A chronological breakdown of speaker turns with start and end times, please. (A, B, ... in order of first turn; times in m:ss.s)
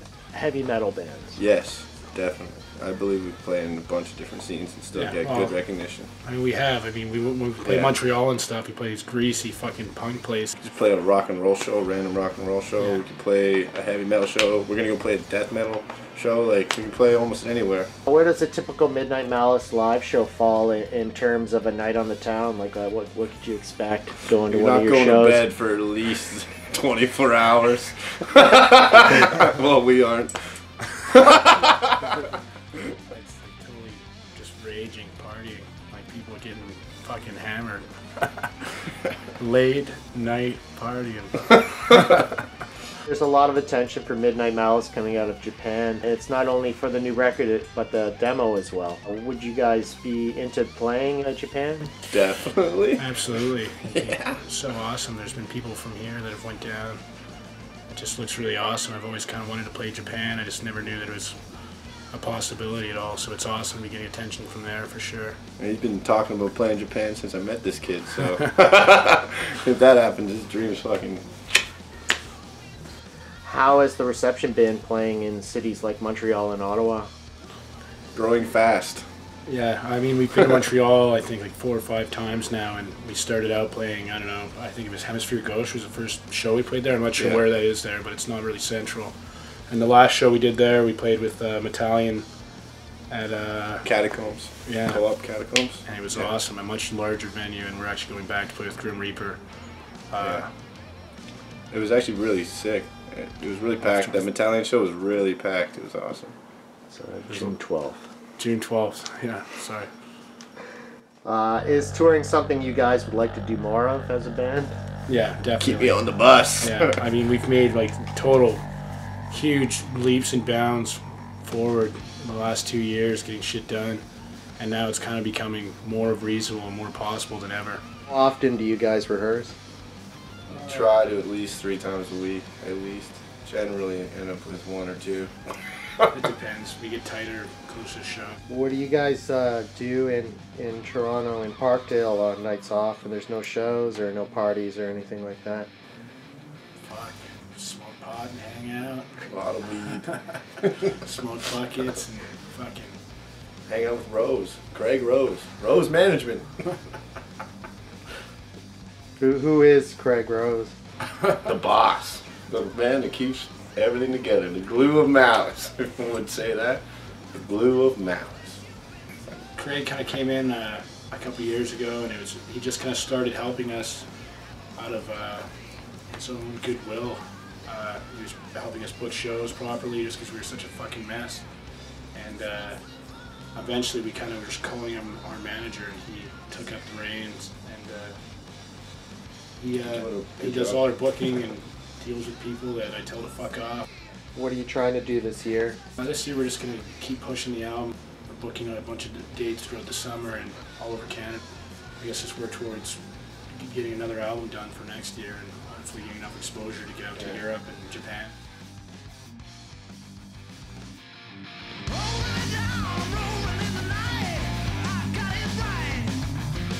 0:00.3-0:01.4 A
0:01.4-0:06.1 B
0:04.9-0:05.6 C
0:06.2-0:10.6 C
0:07.6-0:07.9 B
0:10.6-0:17.9 B
0:18.1-0:25.5 A
0:24.5-0:30.4 B
0:30.9-0:32.0 B
0:33.1-0:42.3 C
0:43.1-0:51.9 A
0:52.1-0:53.0 B
0:53.0-0:57.0 C
0:54.0-0:54.4 B
0:57.9-1:01.4 C
1:02.1-1:05.4 C
1:05.6-1:11.2 B
1:13.4-1:17.1 A
1:18.2-1:19.0 B
1:19.5-1:32.3 C
1:33.1-1:33.9 C
1:33.8-1:36.3 B
1:34.6-1:35.2 C
1:35.8-1:40.5 C
1:40.2-1:40.5 B
1:41.7-1:46.3 B
1:43.9-1:44.2 C
1:46.9-1:48.0 A
1:48.4-1:49.9 C
1:51.2-1:54.7 A
1:55.1-1:56.0 C
1:55.6-1:57.0 B
1:56.6-1:58.6 C
1:59.3-2:04.0 C
2:04.6-2:07.8 C
2:08.1-2:09.5 A
2:10.5-2:15.3 B
2:16.1-2:18.4 C
2:18.5-2:25.7 A
2:26.8-2:29.1 C
2:29.3-2:30.1 B
2:30.1-2:33.0 C
2:33.7-2:36.5 B
2:39.2-2:40.7 A
2:41.4-2:46.8 B
2:47.3-2:48.6 B
2:49.6-2:54.1 C
2:54.8-2:55.5 C
2:56.1-3:01.5 C
3:02.1-3:02.8 C
3:03.5-3:08.2 C
3:09.6-3:13.9 C
3:09.9-3:10.8 B
3:14.4-3:15.8 A
3:16.0-3:21.4 C
3:22.0-3:28.4 C
3:32.3-3:36.2 C